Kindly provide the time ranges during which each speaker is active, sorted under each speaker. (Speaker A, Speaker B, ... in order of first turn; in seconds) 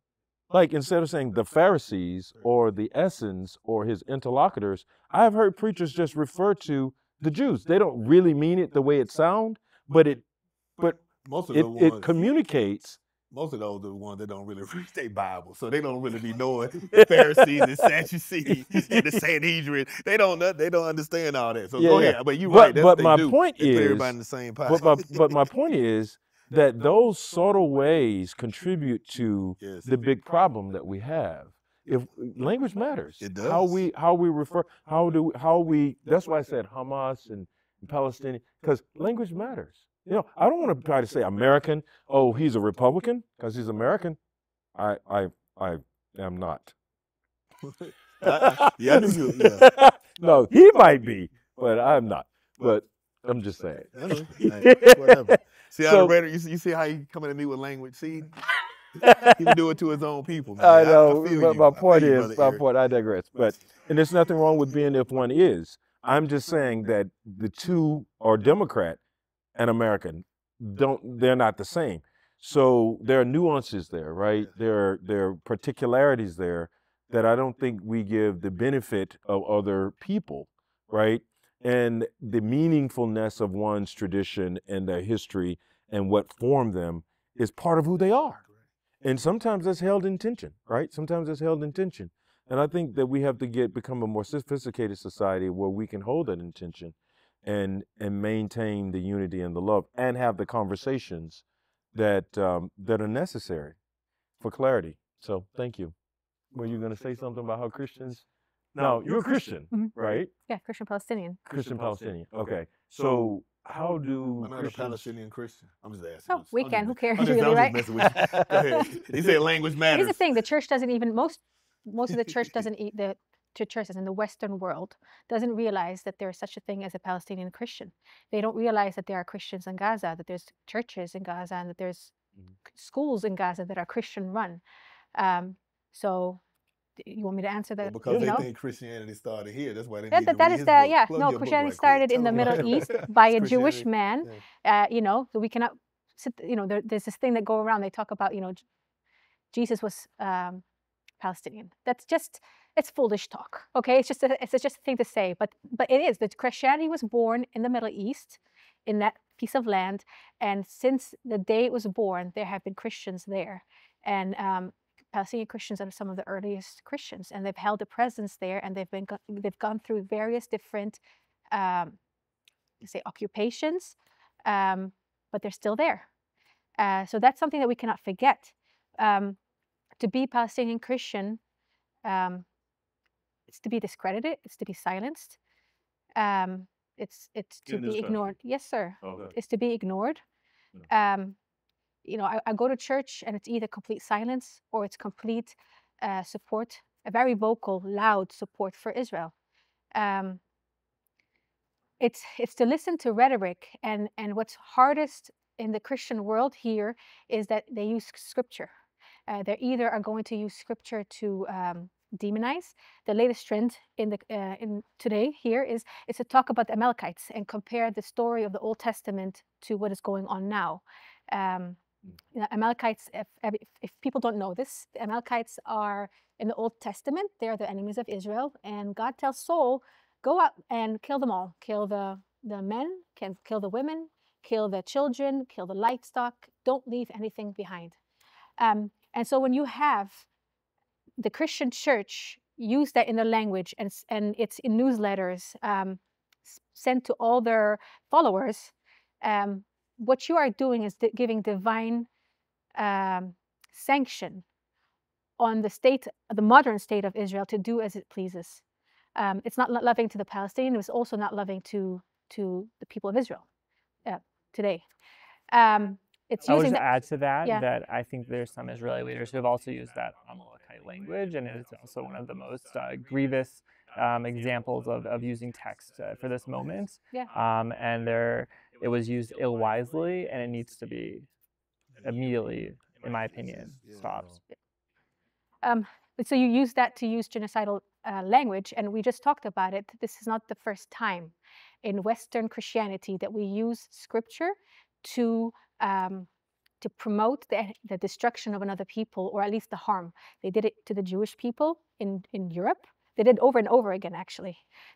Speaker A: 0.5-10.2, 11.5-13.0, 16.9-17.9, 18.5-19.2, 21.8-24.1, 24.7-44.2, 44.8-46.7, 48.2-56.1, 59.0-59.6, 60.6-69.0, 69.6-88.4, 89.0-103.8, 104.4-105.9, 106.5-110.3, 111.5-115.0, 118.1-118.6, 138.1-138.5, 187.7-188.3, 189.0-189.3
Speaker B: 11.2-12.2, 13.3-25.4, 29.6-29.9, 33.2-33.8, 48.2-49.7, 54.0-58.3, 59.2-62.6, 114.4-120.2, 137.8-144.4, 283.8-284.1
Speaker C: 110.5-111.4, 116.3-118.9, 119.9-132.1, 132.7-134.6, 135.2-136.4, 137.0-138.5, 140.1-148.6, 149.5-150.6, 151.2-172.0, 172.8-176.1, 176.8-179.4, 180.0-181.4, 182.0-182.5, 183.5-185.4, 186.2-190.2, 190.9-191.4, 192.1-199.3, 199.9-200.4, 202.0-208.7, 209.3-221.8, 222.3-238.0, 238.6-240.3, 241.2-252.1, 252.8-254.4, 255.4-258.6, 259.2-263.5, 264.1-264.9, 265.5-266.9, 285.6-296.3, 296.8-304.6
Speaker D: 266.5-281.3, 282.0-284.4